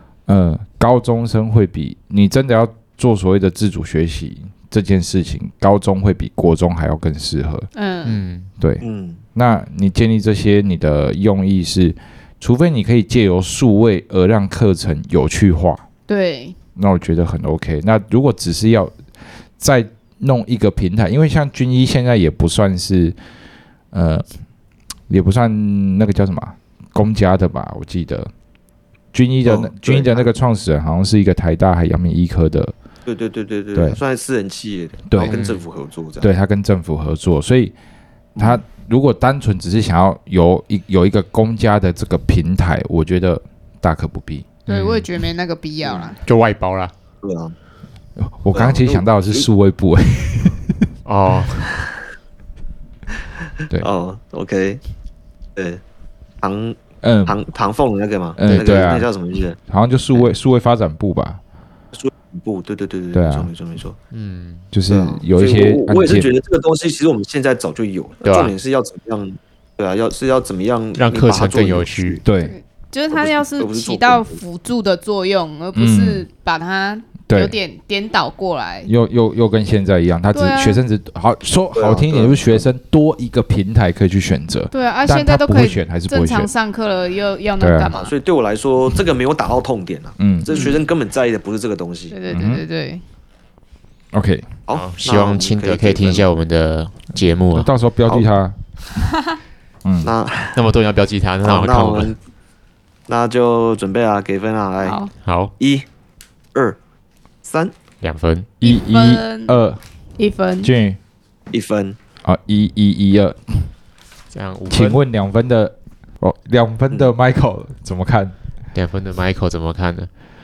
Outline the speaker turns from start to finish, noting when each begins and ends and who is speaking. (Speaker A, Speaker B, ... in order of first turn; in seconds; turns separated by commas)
Speaker A: 0.3-7.7, Speaker B: 7.7-8.2, Speaker C: 8.0-8.5, Speaker D: 8.8-9.2, Speaker A: 9.3-15.8, Speaker B: 16.1-16.6, Speaker A: 16.8-18.9, Speaker A: 19.6-23.1, Speaker A: 23.9-24.2, Speaker A: 25.1-28.3, Speaker A: 29.1-32.7, Speaker D: 29.4-30.3, Speaker D: 33.0-36.3, Speaker A: 35.1-35.4, Speaker C: 35.2-35.6, Speaker A: 36.2-37.7, Speaker D: 38.4-38.6, Speaker A: 38.4-44.5, Speaker C: 44.7-45.1, Speaker B: 44.7-46.2, Speaker D: 45.8-46.1, Speaker C: 46.2-46.9, Speaker D: 47.2-47.5, Speaker A: 48.2-50.9, Speaker D: 48.5-49.5, Speaker C: 51.0-51.7, Speaker D: 53.8-54.8, Speaker D: 55.5-55.8, Speaker D: 56.4-59.6, Speaker A: 57.0-57.4, Speaker A: 58.4-59.1, Speaker A: 59.6-61.4, Speaker D: 61.9-64.0, Speaker A: 63.1-63.5, Speaker C: 64.1-64.7, Speaker A: 64.7-66.3, Speaker D: 64.9-72.2, Speaker C: 68.2-68.5, Speaker C: 71.0-72.2, Speaker A: 72.2-72.5, Speaker B: 72.4-78.9, Speaker D: 73.1-74.4, Speaker A: 75.7-76.2, Speaker A: 77.3-77.5, Speaker A: 78.8-86.5, Speaker B: 80.3-80.8, Speaker D: 81.8-82.7, Speaker B: 84.7-88.1, Speaker A: 87.6-87.9, Speaker D: 87.9-92.2, Speaker A: 90.2-90.7, Speaker B: 90.5-90.8, Speaker B: 92.1-93.0, Speaker A: 92.3-92.6, Speaker A: 94.1-94.5, Speaker D: 94.7-96.2, Speaker C: 94.7-97.7, Speaker A: 97.5-98.5, Speaker D: 100.0-100.6, Speaker C: 100.5-102.1, Speaker D: 101.4-102.2, Speaker D: 103.1-105.0, Speaker B: 104.8-105.1, Speaker C: 105.2-105.5, Speaker D: 105.6-105.9, Speaker D: 107.4-107.7, Speaker C: 108.0-108.5, Speaker A: 108.6-109.8, Speaker B: 108.6-109.6, Speaker B: 110.2-110.7, Speaker A: 110.6-111.0, Speaker D: 111.5-112.0, Speaker A: 112.2-113.7, Speaker C: 114.3-115.0, Speaker A: 114.7-118.3, Speaker C: 118.7-120.1